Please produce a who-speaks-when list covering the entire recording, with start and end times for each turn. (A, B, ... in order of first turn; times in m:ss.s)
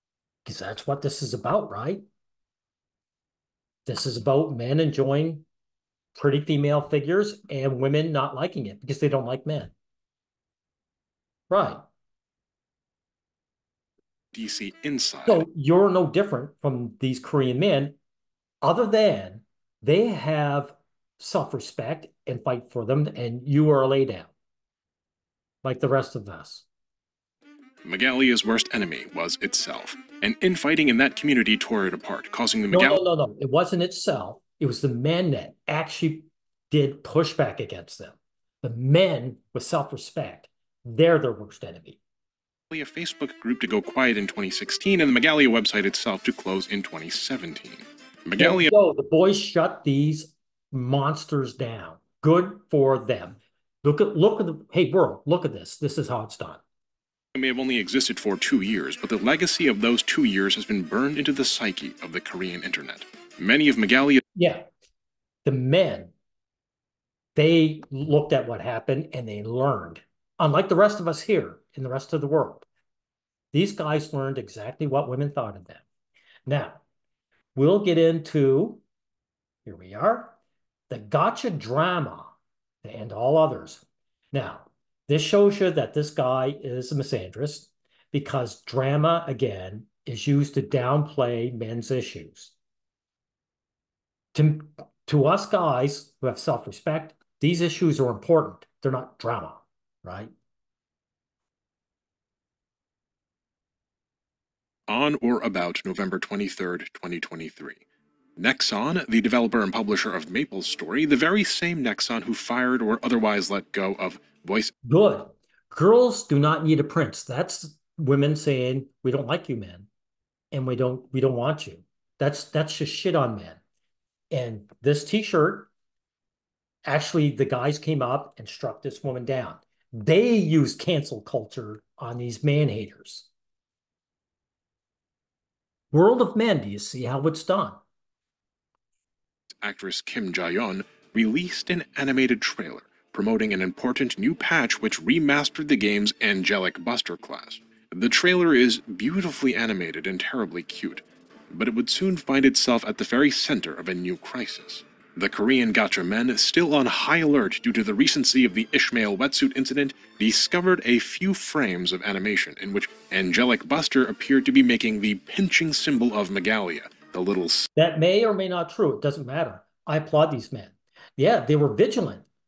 0:00.4-0:02.0 A
0:03.8-0:05.4 A
0:06.2-0:09.7 A
0:11.5-0:11.8 A
0:14.3-0:15.4 B
0:15.3-0:18.0 A
0:18.6-0:24.3 A
0:25.6-0:26.6 A
0:27.8-0:33.0 B
0:32.7-0:42.0 A
0:42.7-0:48.7 B
0:48.4-0:56.6 A
0:57.3-1:04.2 B
1:04.3-1:04.7 A
1:05.4-1:06.1 A
1:07.4-1:12.7 A
1:13.5-1:15.8 A
1:16.4-1:16.8 A
1:17.6-1:18.8 A
1:19.6-1:20.3 A
1:20.9-1:32.5 A
1:34.3-1:40.3 A
1:44.9-1:47.8 B
1:48.4-1:54.7 B
1:54.8-1:59.9 A
2:00.5-2:03.6 A
2:04.3-2:05.7 A
2:06.8-2:13.3 A
2:15.9-2:17.8 A
2:19.6-2:47.7 B
2:47.8-2:52.2 A